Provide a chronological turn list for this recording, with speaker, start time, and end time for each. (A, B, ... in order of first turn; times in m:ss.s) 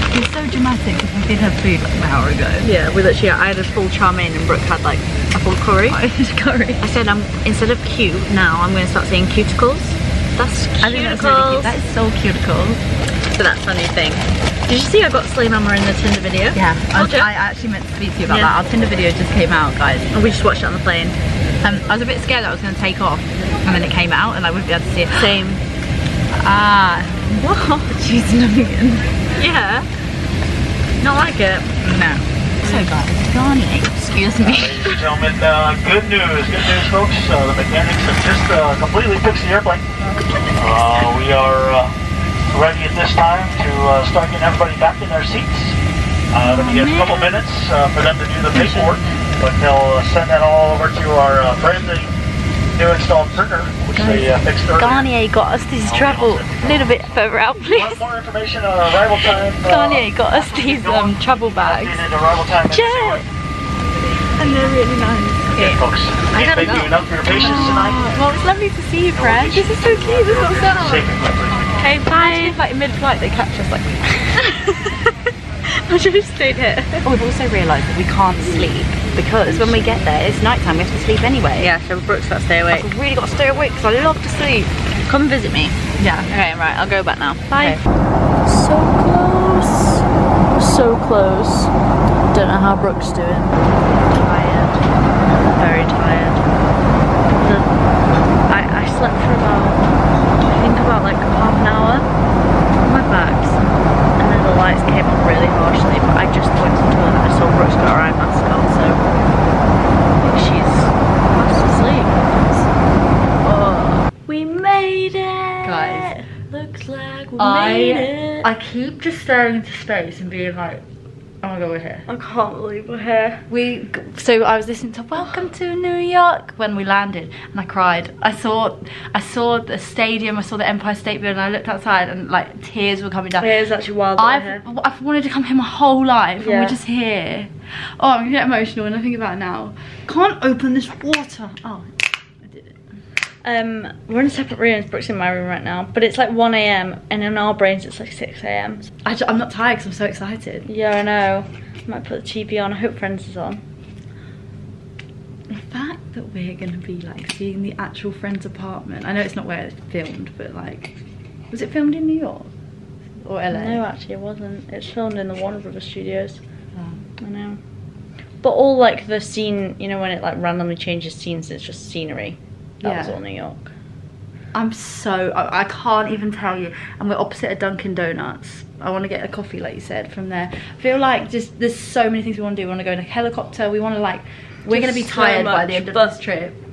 0:00.1-0:02.7 A
0:02.6-0:06.0 B
0:05.9-0:06.9 A
0:06.8-0:11.8 B
0:10.8-0:12.8 A
0:13.3-0:17.3 B
0:16.6-0:20.1 A
0:18.3-0:18.6 B
0:20.1-0:21.2 B
0:21.6-0:25.4 A
0:25.1-0:25.6 B
0:26.4-0:29.1 A
0:29.4-0:29.9 B
0:31.0-0:31.7 B
0:31.8-0:35.0 A
0:32.6-0:33.1 B
0:34.4-0:39.9 C
0:40.6-0:41.9 C
0:42.5-0:45.8 C
0:46.3-0:52.1 C
0:46.4-0:47.4 B
0:46.5-0:47.0 A
0:48.5-0:49.1 B
0:48.7-0:49.0 A
0:52.7-0:55.2 C
0:53.9-0:58.0 A
0:54.0-0:54.2 B
0:55.8-0:57.0 C
0:56.3-0:57.2 B
0:57.6-1:03.2 C
0:59.6-1:02.0 A
1:02.7-1:03.3 B
1:04.4-1:05.8 A
1:04.4-1:05.8 B
1:05.5-1:08.4 C
1:06.3-1:08.0 B
1:07.2-1:11.1 A
1:09.1-1:11.8 C
1:11.8-1:12.6 B
1:12.1-1:14.4 A
1:14.4-1:14.8 B
1:15.7-1:17.0 B
1:17.0-1:21.7 A
1:21.6-1:22.9 B
1:22.7-1:24.7 A
1:25.1-1:25.7 B
1:26.0-1:26.3 A
1:26.3-1:27.8 B
1:27.5-1:27.8 A
1:28.4-1:31.7 B
1:32.3-1:34.8 B
1:35.5-1:36.4 B
1:37.3-1:37.7 B
1:38.5-1:39.8 B
1:40.5-1:42.1 B
1:42.8-1:43.6 B
1:44.2-1:49.1 B
1:50.2-1:52.7 B
1:53.4-1:58.5 B
1:55.6-1:56.1 A
1:57.4-2:00.8 A
2:01.4-2:02.1 A
2:02.1-2:03.4 B
2:03.5-2:13.5 A
2:13.4-2:14.6 B
2:14.2-2:22.8 A
2:16.4-2:16.8 B
2:23.4-2:28.9 B
2:29.0-2:30.7 A
2:30.7-2:33.6 B
2:35.5-2:41.0 A
2:41.5-2:42.5 A
2:43.2-2:43.8 A
2:43.5-2:46.4 B
2:46.7-2:47.1 A
2:47.2-2:47.6 B
2:48.4-2:53.7 B
2:52.8-2:53.2 A
2:54.5-3:06.6 A
3:04.7-3:06.2 B